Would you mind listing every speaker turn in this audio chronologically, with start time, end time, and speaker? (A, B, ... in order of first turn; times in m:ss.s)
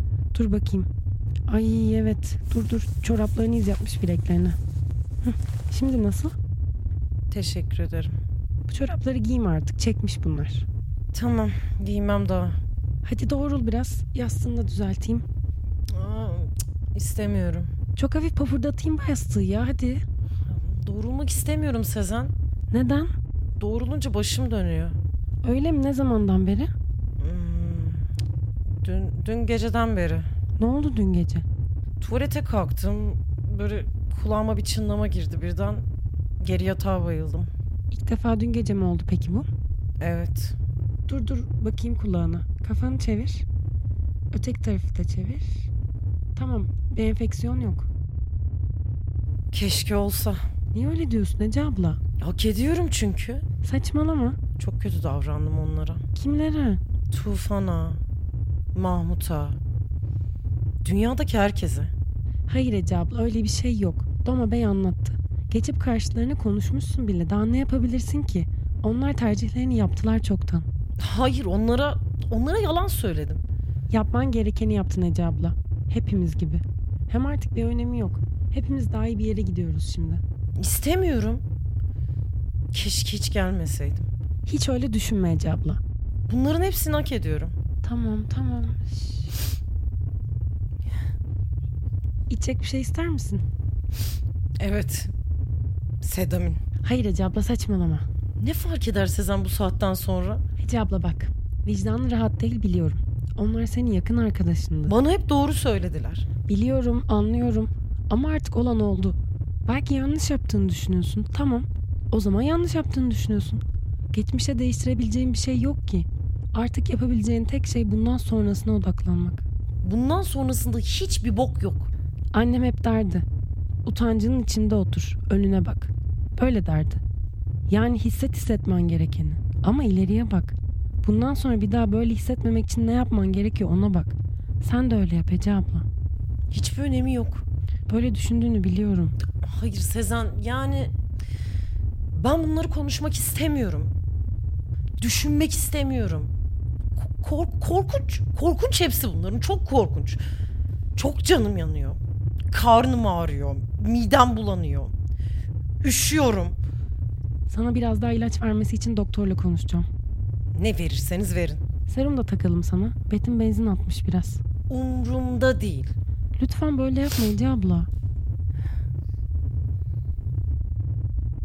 0:00.3-0:00.9 A
0:01.5-0:04.6 A
0:05.3-0:06.3 A
0:07.3-0:08.1 B
0:08.7-0:10.6 A
0:11.1-0:12.6 B
0:13.0-0:15.2 A
0:15.9-0:17.7 B
0:18.0-0:20.0 A
0:20.5-0:22.3 B
0:22.7-0:23.1 A
0:23.6-0:25.0 B
0:25.4-0:26.7 A
0:27.2-0:28.0 B
0:28.8-0:30.3 B
0:30.6-0:31.4 A
0:32.0-0:35.8 B
0:36.4-0:37.5 B
0:37.9-0:39.5 A
0:40.0-0:40.6 B
0:41.1-0:43.4 A
0:44.3-0:45.7 A
0:46.4-0:47.9 A
0:49.5-0:50.4 B
0:50.7-0:52.0 A
0:52.2-0:53.4 B
0:53.6-0:54.4 A
0:54.6-0:56.0 B
0:56.1-0:56.8 A
0:57.1-0:58.0 B
0:58.7-0:59.6 B
1:00.8-1:01.9 B
1:02.5-1:10.6 A
1:11.0-1:13.4 B
1:13.9-1:20.2 A
1:20.6-1:21.4 B
1:22.7-1:24.1 B
1:24.4-1:25.8 A
1:26.3-1:27.5 B
1:27.8-1:29.2 A
1:32.3-1:33.4 A
1:34.6-1:35.1 B
1:36.0-1:36.6 B
1:36.8-1:38.0 A
1:38.4-1:40.4 B
1:40.6-1:44.9 A
1:44.9-1:46.2 B
1:46.5-1:53.6 A
1:54.1-1:59.4 A
1:59.8-2:01.9 B
2:02.3-2:03.2 A
2:03.8-2:07.0 A
2:07.7-2:15.8 A
2:16.5-2:17.4 B
2:17.9-2:19.2 A
2:19.4-2:20.9 B
2:22.1-2:23.9 B
2:25.0-2:26.3 B
2:27.0-2:30.2 B
2:31.0-2:32.0 B
2:32.5-2:34.9 B
2:35.8-2:36.6 B
2:37.5-2:39.9 A
2:40.6-2:41.6 B
2:41.9-2:44.4 A
2:44.7-2:45.9 B
2:46.4-2:47.9 A